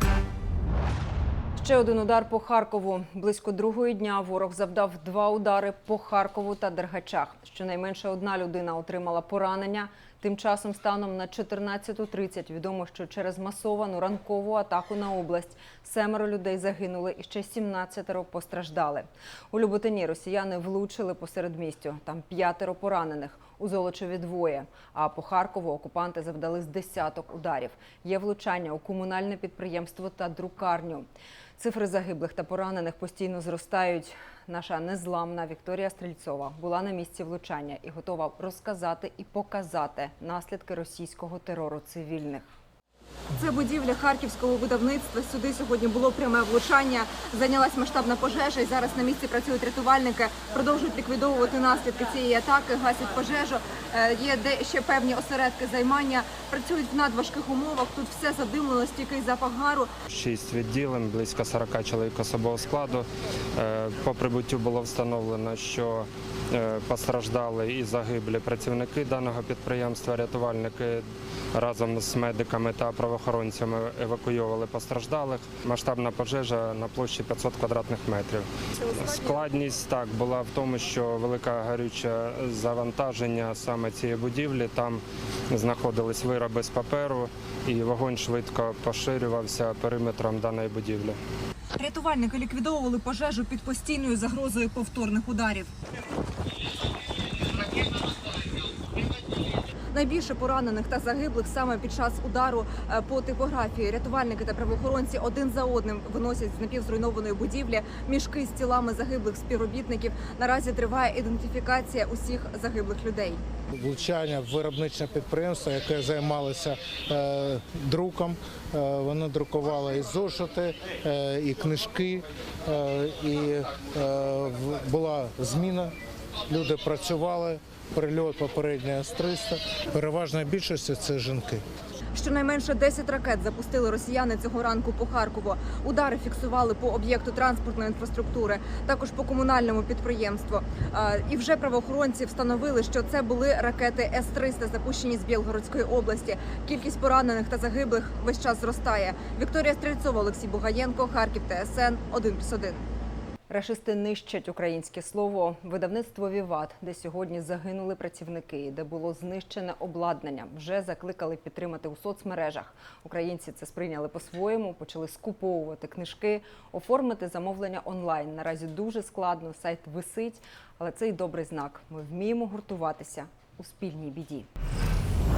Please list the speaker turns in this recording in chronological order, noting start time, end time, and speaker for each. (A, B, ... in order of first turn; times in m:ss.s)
0:01.6-0:42.5 A
0:43.4-0:59.9 B
1:00.1-1:31.2 C
1:31.8-1:35.7 B
1:39.9-1:53.4 B
1:53.7-2:05.9 D
2:06.5-2:11.6 D
2:12.1-2:32.8 B
2:33.5-2:54.5 A